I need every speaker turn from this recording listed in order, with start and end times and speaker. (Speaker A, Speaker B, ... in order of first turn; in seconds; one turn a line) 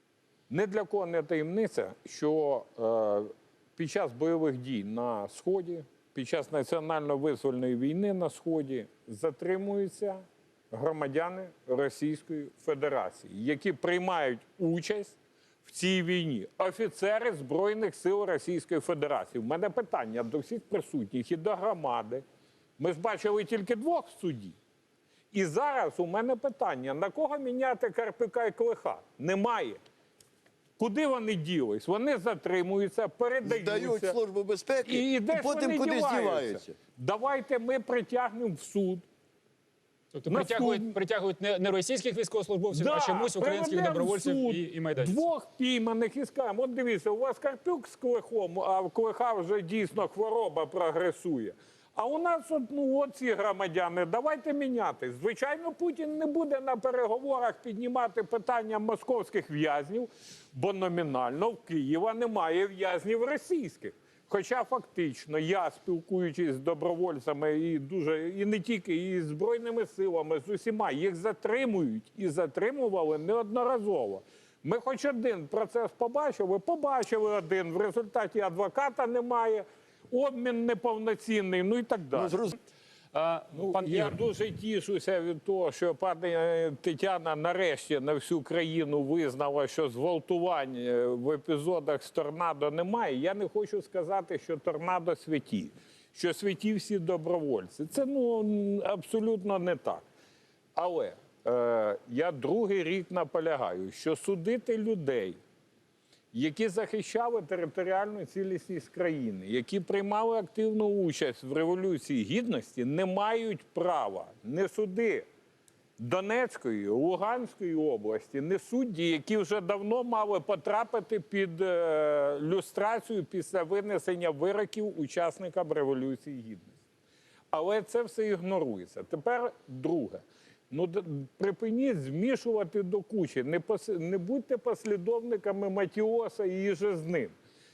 Speaker A: 0.5-22.2
Speaker A: 22.8-24.6
Speaker A: 25.3-29.8
Speaker A: 30.8-34.2
Speaker B: 33.4-36.8
Speaker A: 34.9-39.0
Speaker C: 40.1-45.3
Speaker A: 40.3-40.9
Speaker A: 42.7-82.4
Speaker B: 82.1-82.5
Speaker C: 83.1-84.2
Speaker A: 83.5-100.0
Speaker A: 100.8-105.4
Speaker A: 106.3-115.3
Speaker A: 116.0-126.7
Speaker A: 127.5-137.3